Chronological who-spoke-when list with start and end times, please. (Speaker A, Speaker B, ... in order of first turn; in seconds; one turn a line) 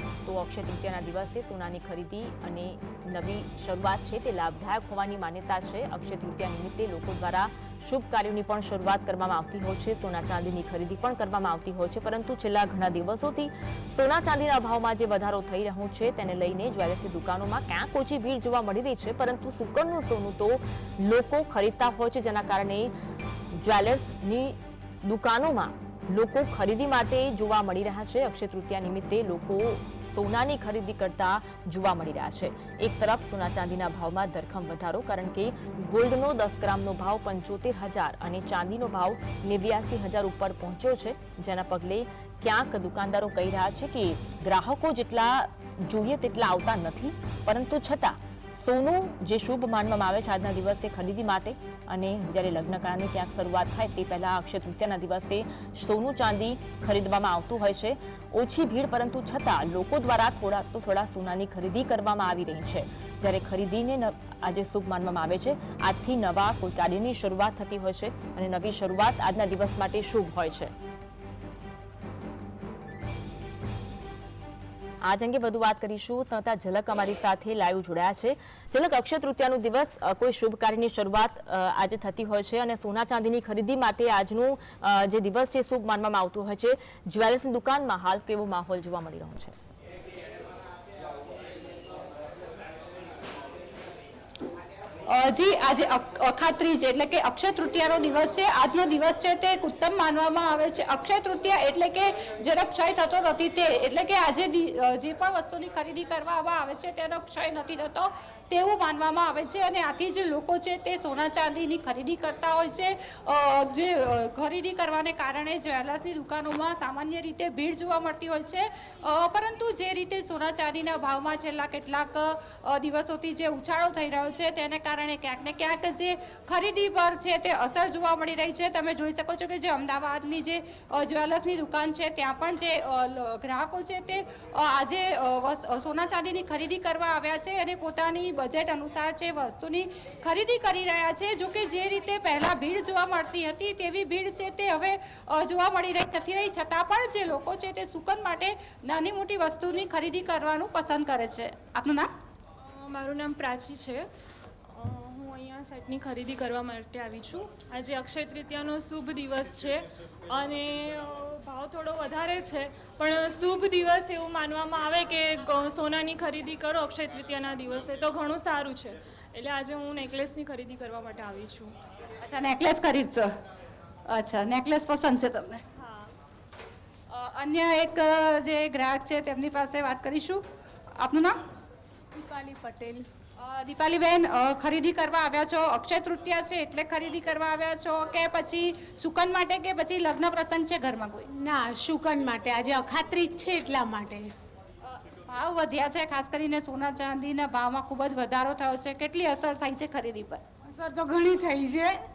Speaker A: 0.2-22.9
Speaker A: 23.5-70.7
Speaker A: 75.0-89.5
Speaker B: 95.1-152.1
Speaker C: 152.6-154.1
Speaker C: 154.7-171.7
Speaker B: 172.2-173.3
Speaker B: 174.1-175.6
Speaker C: 175.8-176.1
Speaker B: 177.1-180.4
Speaker B: 181.0-181.4
Speaker D: 182.1-183.1
Speaker B: 183.4-191.3
Speaker D: 191.3-194.3
Speaker B: 194.9-200.4
Speaker D: 200.7-202.0